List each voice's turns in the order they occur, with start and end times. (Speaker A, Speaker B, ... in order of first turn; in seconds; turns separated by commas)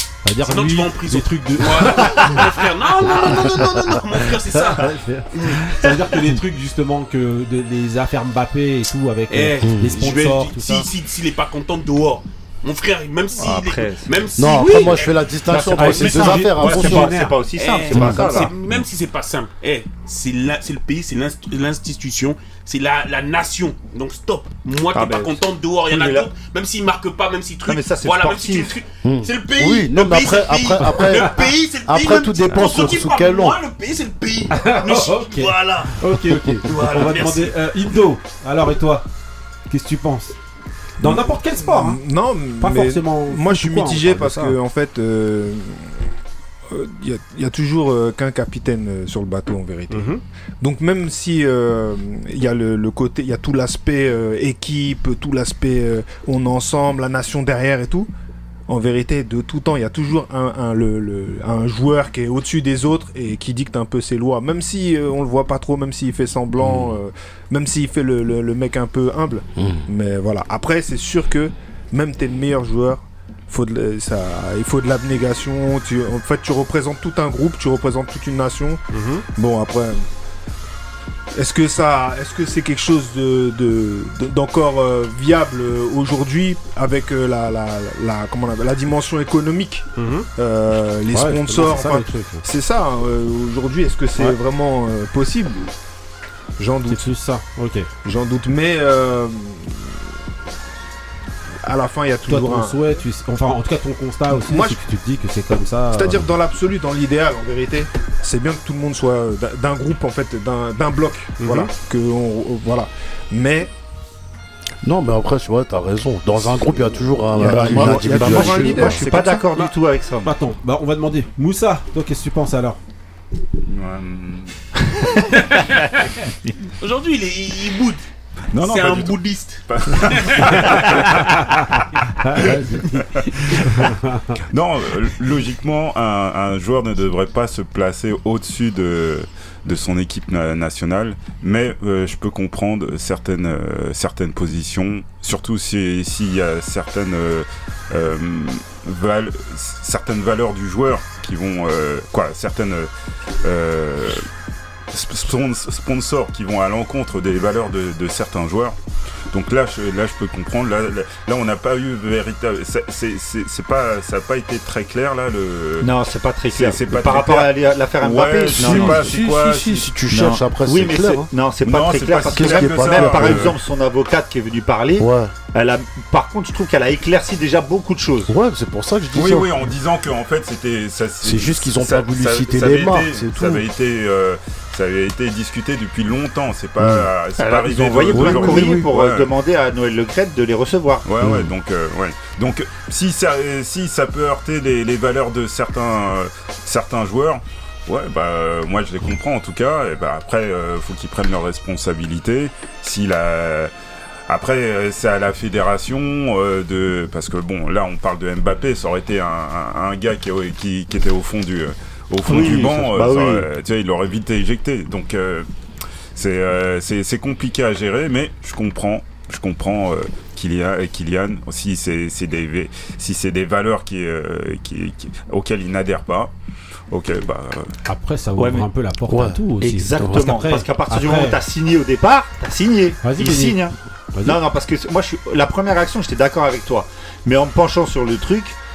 Speaker A: 0.2-2.4, Speaker B: 0.4-6.3, Speaker A: 3.0-3.5, Speaker A: 4.5-10.9, Speaker B: 9.3-15.2, Speaker C: 9.6-9.9, Speaker D: 13.4-14.1, Speaker C: 14.4-17.1, Speaker A: 14.5-14.9, Speaker D: 15.5-18.5, Speaker A: 15.7-17.4, Speaker B: 17.6-35.9, Speaker C: 17.9-18.2, Speaker E: 18.0-18.5, Speaker A: 18.1-18.5, Speaker D: 24.9-26.3, Speaker D: 27.6-28.8, Speaker C: 29.0-33.6, Speaker A: 34.5-39.0, Speaker B: 36.6-37.5, Speaker A: 39.7-40.4, Speaker A: 41.0-42.0, Speaker E: 41.0-46.0, Speaker A: 42.6-44.5, Speaker E: 46.7-58.1, Speaker A: 49.9-50.2, Speaker E: 58.7-78.8, Speaker C: 66.6-67.0, Speaker C: 69.5-69.9, Speaker A: 78.9-79.2, Speaker E: 79.4-80.0, Speaker E: 81.3-95.7, Speaker A: 90.0-90.3, Speaker A: 91.1-92.4, Speaker E: 96.6-97.2, Speaker A: 96.9-97.9, Speaker E: 98.0-100.0, Speaker E: 101.6-102.8, Speaker A: 102.3-106.2, Speaker E: 104.3-104.8, Speaker E: 105.9-113.7, Speaker A: 111.4-111.7, Speaker C: 114.8-119.0, Speaker D: 117.4-120.3, Speaker E: 117.5-119.4, Speaker A: 120.2-122.8, Speaker F: 123.7-124.5, Speaker B: 126.8-128.0, Speaker F: 128.5-131.2, Speaker B: 128.6-131.1, Speaker A: 132.2-134.2, Speaker F: 134.5-152.9, Speaker F: 153.4-154.2, Speaker F: 154.9-158.7, Speaker F: 159.3-165.9, Speaker D: 165.8-169.2, Speaker F: 166.5-170.0, Speaker C: 168.5-171.3, Speaker D: 170.1-178.3, Speaker F: 171.6-173.6, Speaker C: 172.3-173.5, Speaker C: 175.0-175.3, Speaker C: 178.3-179.6, Speaker F: 179.1-189.3, Speaker C: 181.2-183.6, Speaker D: 187.4-191.1, Speaker C: 188.1-188.9, Speaker F: 191.1-203.7, Speaker C: 191.2-191.5, Speaker F: 204.3-215.5, Speaker D: 212.2-213.5, Speaker F: 216.1-226.3, Speaker F: 226.9-227.7, Speaker A: 227.8-231.3, Speaker D: 228.4-228.7, Speaker C: 229.1-229.4, Speaker D: 229.6-238.6, Speaker A: 233.0-233.6